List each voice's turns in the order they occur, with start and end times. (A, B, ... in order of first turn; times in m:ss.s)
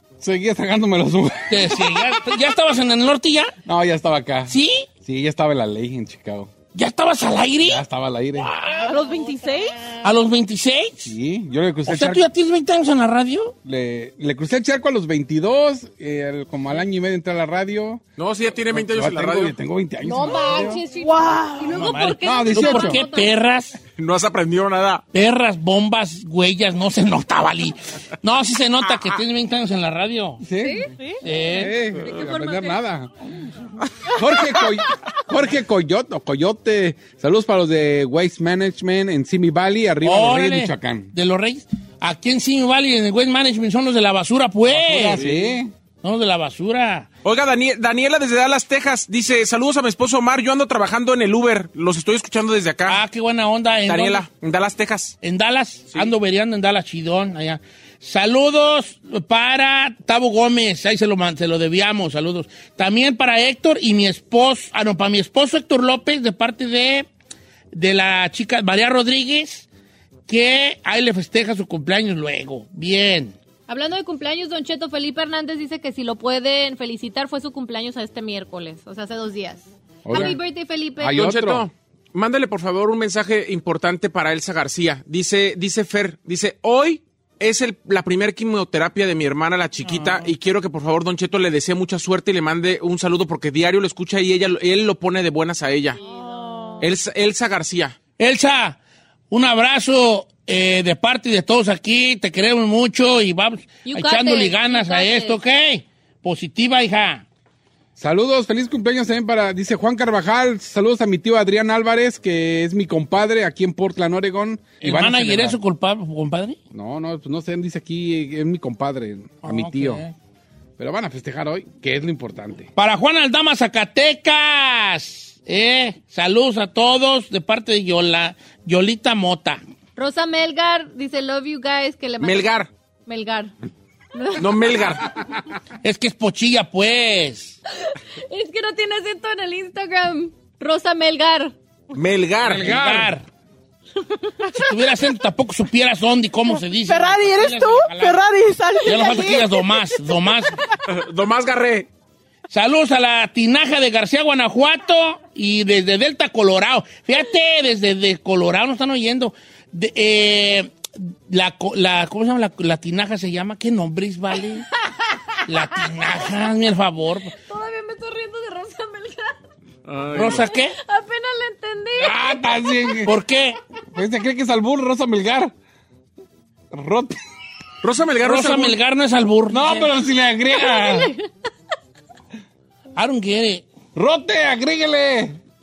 0:00.2-0:02.2 A
0:01.5-0:03.6 B
0:03.7-0:06.5 A
0:04.5-0:04.9 B
0:06.7-0:07.8 B
0:07.6-0:08.6 A
0:08.4-0:09.0 B
0:08.7-0:09.8 C
0:09.0-0:09.5 D
0:10.0-0:11.2 B
0:11.1-0:12.2 A
0:11.8-0:13.6 B
0:13.6-0:18.0 A
0:18.2-0:19.6 E
0:18.7-0:20.8 A
0:20.0-0:23.3 D
0:21.0-0:21.7 C
0:21.6-0:23.8 B
0:22.2-0:23.0 A
0:24.0-0:25.0 E
0:25.1-0:30.4 B
0:30.4-0:30.8 A
0:30.6-0:32.8 D
0:30.9-0:31.2 C
0:31.2-0:31.8 B
0:31.6-0:33.1 A
0:34.1-0:41.1 A
0:40.0-0:45.2 B
0:44.7-0:45.7 A
0:46.0-0:47.1 B
0:47.2-0:53.0 E
0:52.9-0:54.2 B
0:53.9-0:55.2 E
0:55.2-1:07.1 B
1:07.7-1:09.7 B
1:10.3-1:13.4 B
1:13.7-1:21.3 D
1:20.1-1:20.4 A
1:21.0-1:21.7 A
1:21.1-1:36.0 E
1:36.0-1:36.9 D
1:36.0-1:36.9 C
1:36.8-1:38.0 E
1:38.2-1:38.8 B
1:39.3-1:47.2 B
1:43.8-1:45.4 D
1:48.0-1:55.6 A
1:54.8-1:56.6 B
1:56.7-2:00.0 A
1:59.4-2:00.1 B
2:00.8-2:02.7 A
2:02.8-2:09.6 B
2:10.0-2:13.5 D
2:12.2-2:12.7 E
2:14.1-2:14.8 D
2:14.4-2:15.0 E
2:15.8-2:17.6 B
2:17.8-2:21.5 D
2:21.9-2:23.0 E
2:22.4-2:23.2 B
2:22.6-2:23.1 A
2:24.5-2:28.2 B
2:26.9-2:30.5 C
2:28.8-2:30.6 B
2:30.9-2:31.9 E
2:32.5-2:44.6 B
2:45.5-2:47.3 B
2:47.3-2:49.4 D
2:49.9-2:50.4 E
2:50.1-2:50.8 B
2:50.5-2:53.0 D
2:52.0-2:53.1 A
2:53.0-2:53.6 B
2:53.9-2:55.5 A
2:56.7-2:57.2 A
2:57.8-2:58.8 E
2:58.2-2:59.9 B
2:59.5-3:01.1 A
3:00.6-3:01.2 D
3:03.0-3:03.7 B
3:04.0-3:05.4 A